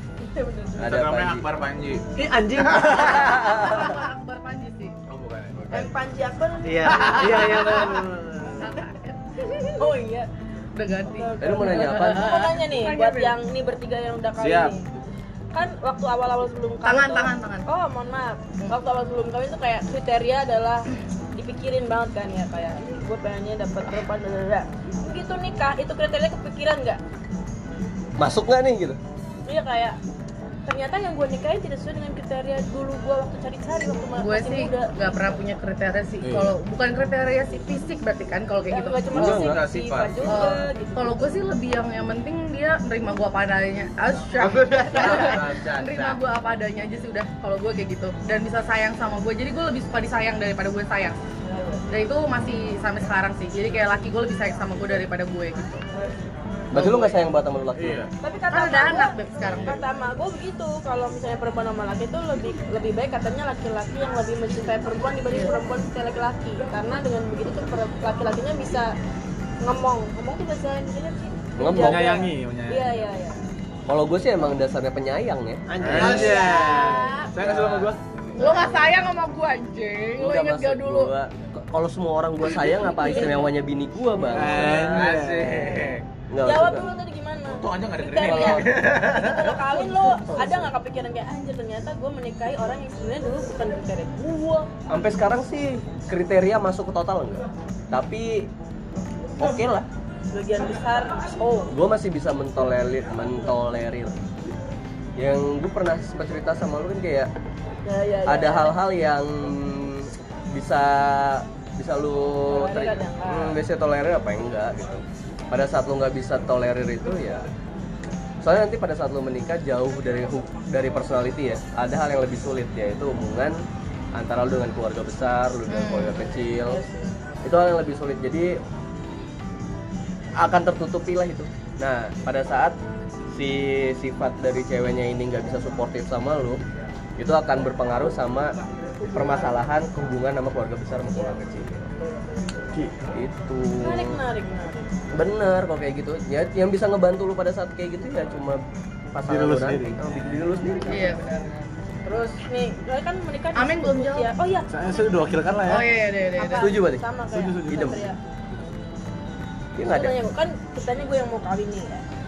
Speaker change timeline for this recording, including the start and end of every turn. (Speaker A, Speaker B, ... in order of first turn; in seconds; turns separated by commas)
Speaker A: 0.2-0.9, Speaker B: 0.8-1.4, Speaker C: 0.8-2.1, Speaker D: 2.1-3.6, Speaker E: 3.0-4.9, Speaker C: 5.1-5.9, Speaker A: 5.7-7.6, Speaker D: 6.6-8.8, Speaker E: 8.6-9.8, Speaker A: 9.7-10.3, Speaker E: 10.7-13.3, Speaker A: 11.1-14.9, Speaker B: 11.4-12.4, Speaker F: 14.4-14.7, Speaker A: 15.5-27.0, Speaker E: 16.8-17.6, Speaker B: 28.2-29.0, Speaker A: 29.4-30.0, Speaker A: 30.6-34.9, Speaker E: 34.2-39.5, Speaker F: 36.2-36.5, Speaker A: 38.7-41.2, Speaker C: 39.1-40.6, Speaker B: 39.2-39.6, Speaker E: 40.2-51.1, Speaker C: 44.4-46.2, Speaker E: 51.9-55.8, Speaker B: 56.7-58.0, Speaker C: 57.8-58.1, Speaker A: 58.2-68.9, Speaker E: 58.5-59.8, Speaker A: 69.6-73.4, Speaker B: 71.6-72.2, Speaker F: 71.8-73.0, Speaker B: 73.9-76.2, Speaker D: 75.7-77.1, Speaker C: 75.8-76.5, Speaker F: 75.9-76.4, Speaker A: 76.1-77.3, Speaker F: 77.3-78.0, Speaker E: 78.4-81.1, Speaker B: 80.2-85.0, Speaker E: 82.8-83.1, Speaker A: 82.9-83.5, Speaker F: 84.3-85.9, Speaker D: 84.6-85.2, Speaker C: 84.6-86.0, Speaker B: 86.3-86.9, Speaker A: 86.4-94.7, Speaker C: 87.5-89.7, Speaker B: 88.2-88.7, Speaker B: 90.2-90.7, Speaker B: 94.9-98.5, Speaker B: 99.4-99.9, Speaker A: 100.3-101.7, Speaker B: 101.7-104.1, Speaker B: 105.2-107.3, Speaker A: 107.8-108.7, Speaker B: 108.2-117.5, Speaker A: 112.5-113.6, Speaker B: 118.4-123.5, Speaker B: 124.1-126.8, Speaker E: 125.7-126.2, Speaker A: 126.6-127.0, Speaker B: 127.4-128.6, Speaker B: 130.4-132.8, Speaker B: 133.3-136.6, Speaker B: 137.2-138.6, Speaker B: 139.1-141.8, Speaker B: 143.1-144.2, Speaker A: 143.8-144.9, Speaker B: 145.1-148.6, Speaker B: 149.1-151.2, Speaker F: 149.2-150.0, Speaker E: 150.9-151.5, Speaker A: 152.0-154.7, Speaker E: 153.6-154.3, Speaker F: 154.7-155.9, Speaker E: 155.7-156.7, Speaker A: 156.4-158.2, Speaker B: 156.6-157.0, Speaker F: 157.3-158.0, Speaker B: 157.7-158.0, Speaker B: 159.7-160.2, Speaker A: 159.8-162.0